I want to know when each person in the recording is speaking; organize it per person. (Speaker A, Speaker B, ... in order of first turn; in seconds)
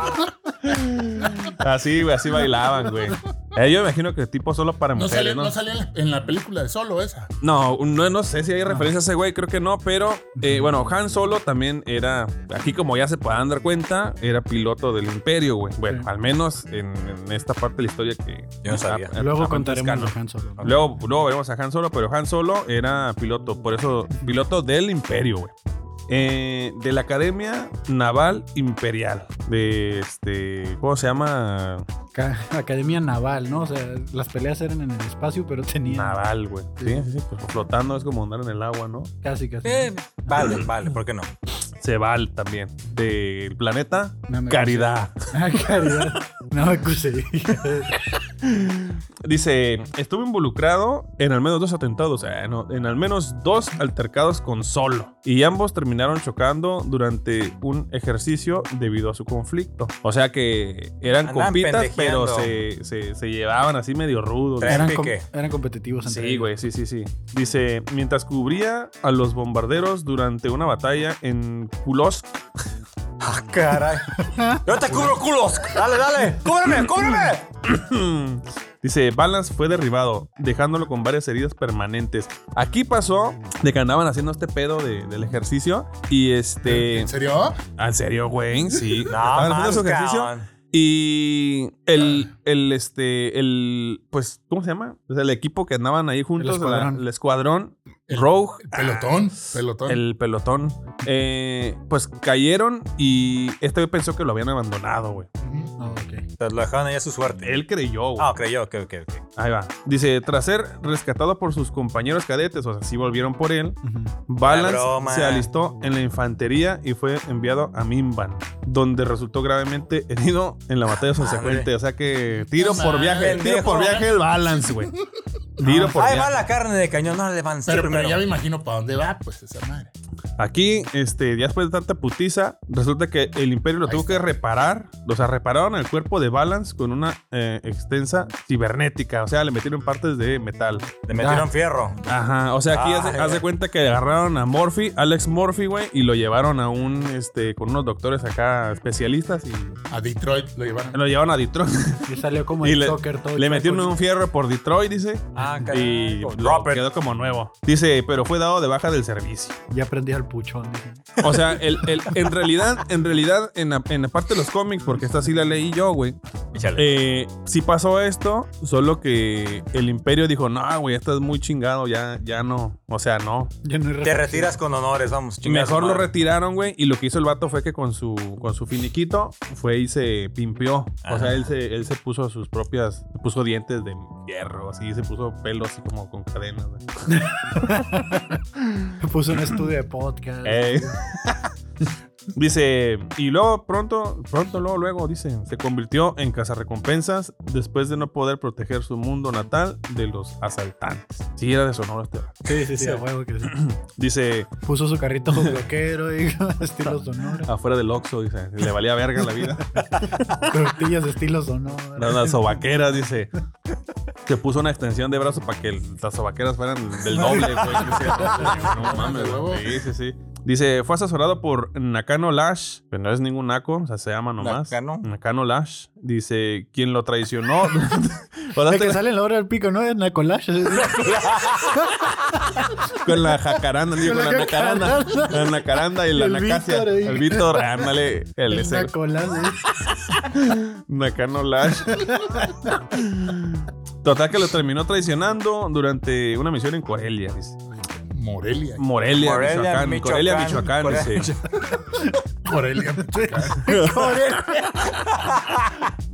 Speaker A: 0.6-5.5, 7.4-25.5, 26.1-31.9, 35.9-39.1, 41.8-45.3, 48.5-64.9, 66.0-72.4, 77.6-87.1, 87.8-99.3, 99.9-105.3, 107.4-108.4, 109.4-124.9, 125.6-126.4, 130.4-141.3, 142.1-149.8, 150.9-159.6, 161.2-166.2, 166.7-173.5, 175.4-186.9, 190.4-191.5, 192.3-204.5, 207.4-210.5, 212.0-213.3, 214.3-229.0, 232.9-238.9, 240.1-247.6, 248.8-251.3, 253.7-254.2
Speaker B: 5.0-7.3, 86.7-87.6, 88.8-89.0, 98.1-100.0, 105.4-105.7, 122.5-125.0, 127.7-129.9, 133.8-134.2, 149.9-151.0, 218.1-219.8, 248.1-248.9, 252.4-253.7
Speaker C: 10.4-10.7, 19.2-20.7, 32.1-36.2, 36.8-37.0, 39.2-40.5, 44.3-48.1, 64.6-66.5, 74.3-74.6, 96.4-97.0, 105.8-106.2, 113.8-114.1, 125.7-125.9, 141.1-141.5, 152.1-154.0, 159.7-161.2, 173.6-174.6, 187.1-188.4, 188.9-191.0, 202.4-203.6, 204.6-207.5, 209.7-212.6, 217.1-218.6, 228.6-233.0, 234.0-237.7, 238.5-240.1, 241.9-242.6, 253.1-255.0
Speaker D: 18.6-19.1, 39.6-41.3, 61.2-62.6, 64.6-65.3, 73.2-77.5, 89.1-90.5, 106.4-107.6, 108.2-109.2, 114.4-115.5, 120.9-121.7, 122.8-124.1, 125.7-128.2, 141.1-142.1, 142.7-143.4, 155.3-156.8, 161.2-161.6, 166.5-166.9, 174.0-176.1, 181.1-181.5, 224.4-225.1, 230.9-231.8, 249.2-251.6, 254.9-255.8